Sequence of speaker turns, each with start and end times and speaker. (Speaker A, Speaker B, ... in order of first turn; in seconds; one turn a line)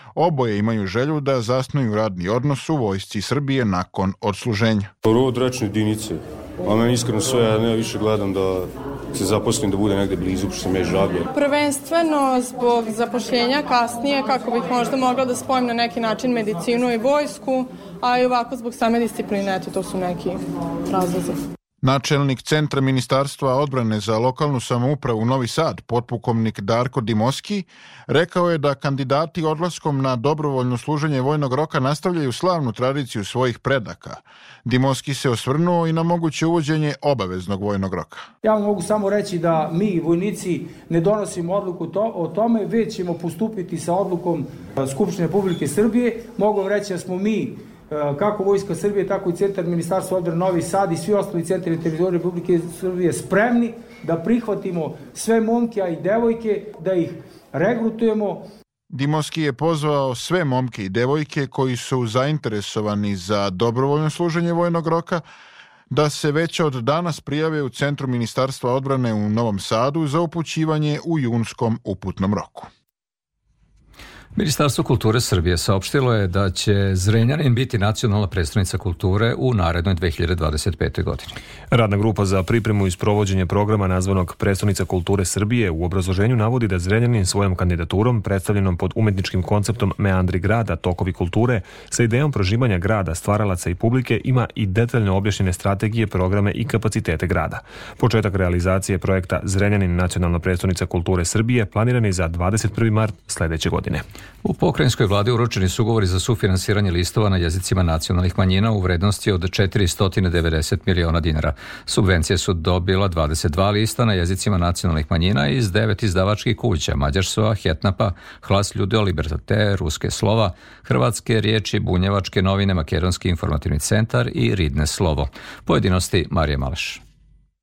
Speaker A: 0.1-4.9
Speaker B: 5.0-11.3
Speaker C: 11.3-21.4
Speaker A: 21.8-38.3
Speaker D: 38.4-58.5
Speaker A: 58.9-65.2
Speaker A: 65.9-72.7
Speaker E: 74.3-81.3
Speaker F: 81.7-104.0
Speaker E: 104.4-127.0